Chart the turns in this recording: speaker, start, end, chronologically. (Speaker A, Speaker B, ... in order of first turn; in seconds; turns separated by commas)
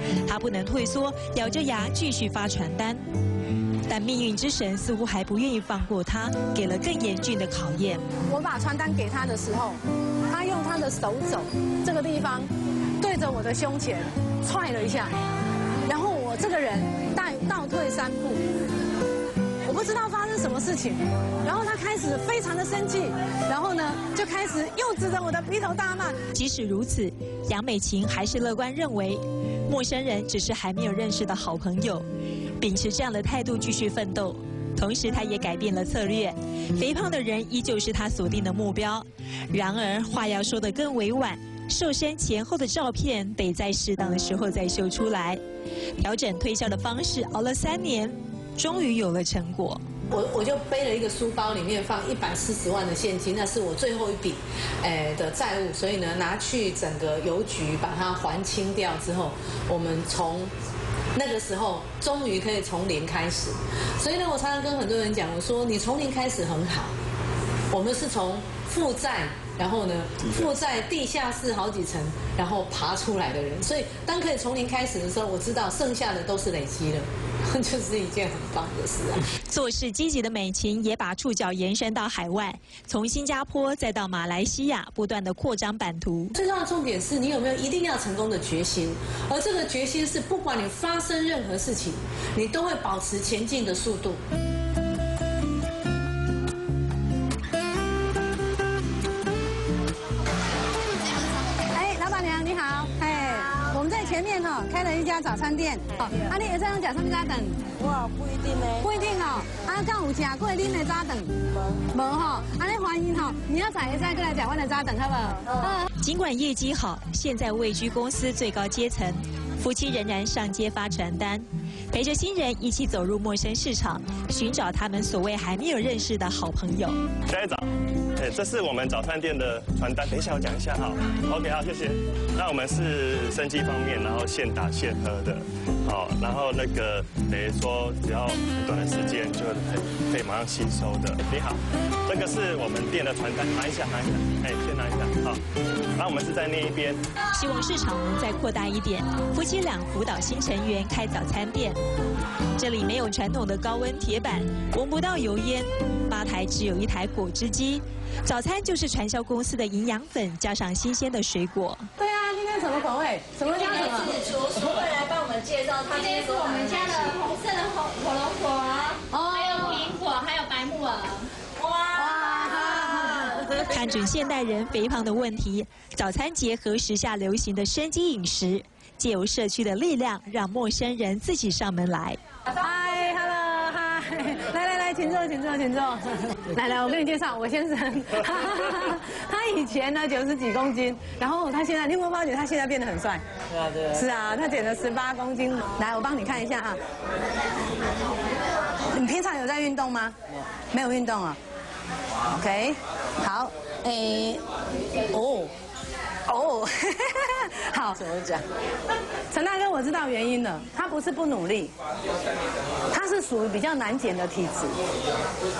Speaker A: 0.2-3.0, Speaker A: 3.9-8.0, Speaker B: 8.3-15.1, Speaker B: 15.8-18.4, Speaker B: 19.6-26.2, Speaker A: 26.3-32.0, Speaker A: 32.6-45.4, Speaker A: 46.0-49.8, Speaker C: 50.1-60.5, Speaker C: 61.1-66.9, Speaker C: 67.7-79.2, Speaker A: 79.5-86.3, Speaker C: 86.3-94.2, Speaker B: 101.6-107.6, Speaker B: 108.7-111.3, Speaker B: 111.9-115.9, Speaker A: 116.0-127.0, Speaker D: 127.3-145.4, Speaker D: 146.0-147.0, Speaker A: 147.3-151.8, Speaker A: 152.6-161.9, Speaker B: 162.0-164.3, Speaker E: 163.6-166.4, Speaker F: 165.8-171.3, Speaker B: 169.1-169.9, Speaker E: 171.6-172.6, Speaker B: 171.9-173.5, Speaker A: 173.6-182.2, Speaker B: 182.5-193.2, Speaker B: 193.8-196.8, Speaker B: 198.9-200.2, Speaker B: 200.7-201.4, Speaker B: 202.2-204.4, Speaker B: 205.1-205.5, Speaker B: 206.2-208.4, Speaker B: 209.3-211.7, Speaker B: 212.9-214.8